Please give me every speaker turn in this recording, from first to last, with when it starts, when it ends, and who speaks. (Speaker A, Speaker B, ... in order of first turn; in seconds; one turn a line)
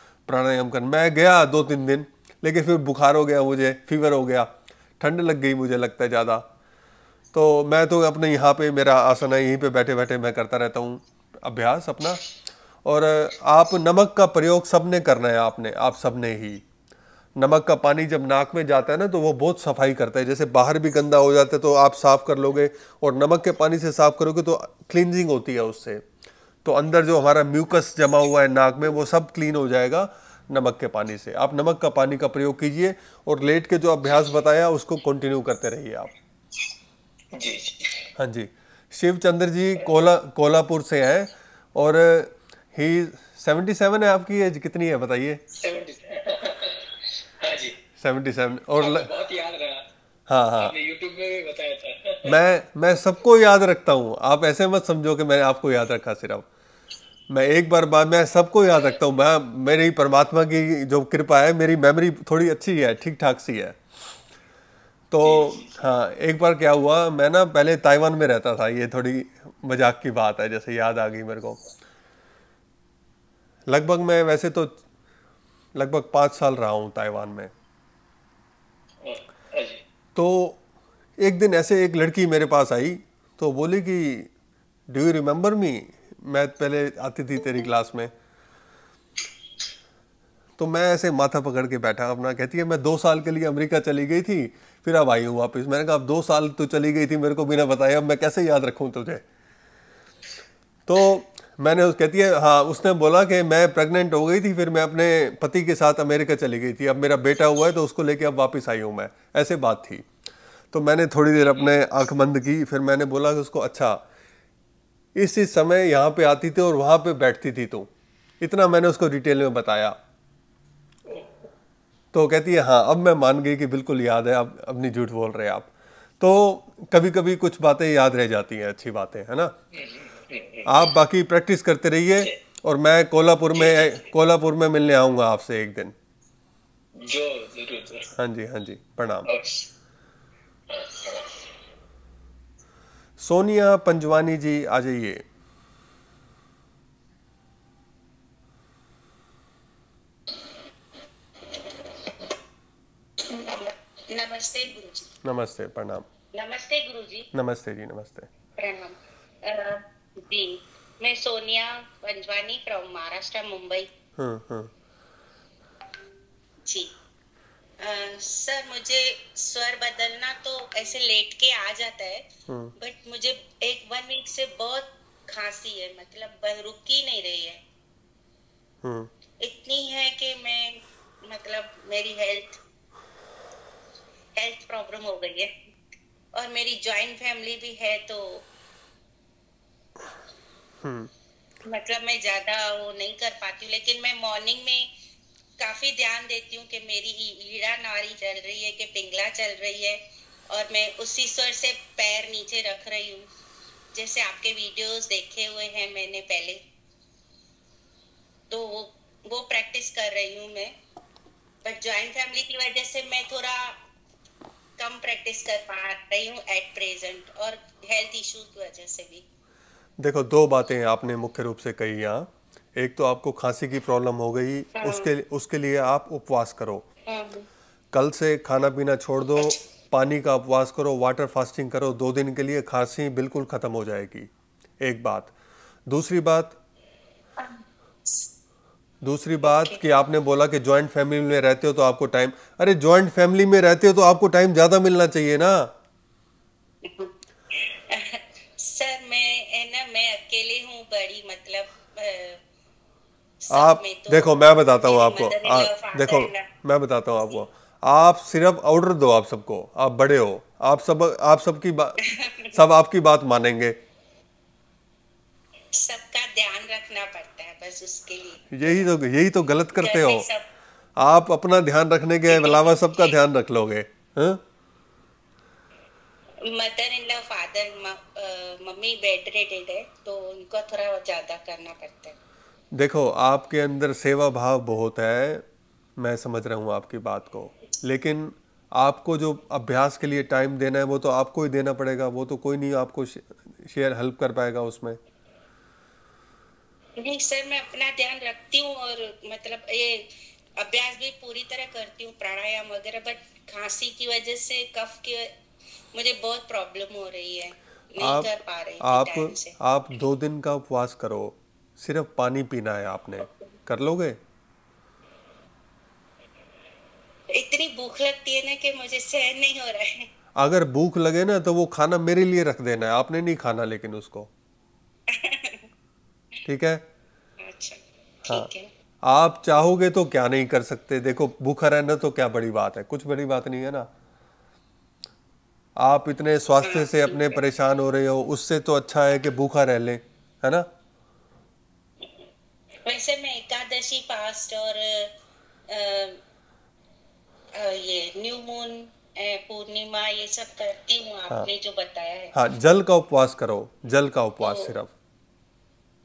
Speaker A: 0.3-6.5
Speaker A: 7.3-12.2
Speaker A: 12.8-16.6
Speaker A: 17.4-26.0
Speaker A: 26.6-36.1
Speaker B: 37.4-37.8
Speaker A: 38.2-45.4
Speaker B: 45.6-46.3
Speaker B: 47.4-47.7
Speaker A: 48.0-49.1
Speaker B: 48.8-49.8
Speaker A: 50.3-50.7
Speaker B: 50.6-52.3
Speaker A: 52.2-56.5
Speaker A: 57.3-63.8
Speaker A: 65.1-71.6
Speaker B: 65.2-65.7
Speaker A: 73.7-74.8
Speaker A: 75.7-77.5
Speaker B: 79.0-79.8
Speaker A: 80.2-80.6
Speaker A: 81.2-84.3
Speaker A: 84.9-88.1
Speaker A: 90.6-99.2
Speaker A: 100.9-110.1
Speaker A: 110.7-114.0
Speaker A: 115.2-117.9
Speaker A: 118.4-120.0
Speaker A: 122.1-129.5
Speaker A: 130.7-135.9
Speaker B: 133.6-134.1
Speaker B: 137.1-138.0
Speaker A: 138.2-139.3
Speaker A: 143.2-145.2
Speaker C: 153.4-155.1
Speaker A: 155.2-156.1
Speaker C: 156.4-157.2
Speaker A: 157.3-158.3
Speaker C: 158.6-158.9
Speaker C: 159.5-163.9
Speaker A: 164.2-164.7
Speaker C: 166.6-166.9
Speaker C: 167.8-172.2
Speaker C: 172.8-177.6
Speaker A: 178.8-179.1
Speaker C: 179.4-182.6
Speaker C: 184.3-185.5
Speaker C: 186.3-188.4
Speaker A: 190.8-191.1
Speaker C: 191.7-194.9
Speaker C: 195.6-203.2
Speaker C: 203.9-206.6
Speaker C: 208.5-210.7
Speaker C: 211.6-213.8
Speaker C: 214.8-219.2
Speaker A: 220.0-226.8
Speaker A: 227.9-234.3
Speaker A: 234.8-235.3
Speaker A: 235.9-236.6
Speaker A: 239.0-245.7
Speaker C: 248.6-252.4
Speaker C: 253.5-256.4
Speaker A: 253.5-261.9
Speaker A: 262.5-263.8
Speaker C: 265.7-268.8
Speaker A: 268.5-270.2
Speaker C: 269.7-270.4
Speaker A: 271.0-274.4
Speaker C: 272.3-273.1
Speaker C: 276.5-282.1
Speaker A: 282.7-285.4
Speaker A: 286.0-295.0
Speaker C: 297.0-305.3
Speaker C: 305.9-309.5
Speaker A: 308.0-314.2
Speaker C: 317.3-320.1
Speaker A: 320.4-324.3
Speaker C: 325.3-325.6
Speaker A: 326.4-326.8
Speaker C: 327.4-328.7
Speaker A: 329.0-333.9
Speaker A: 335.8-340.7
Speaker C: 336.6-337.4
Speaker C: 342.9-345.1
Speaker C: 345.7-346.2
Speaker C: 347.6-352.3
Speaker A: 352.3-354.9
Speaker C: 354.4-354.7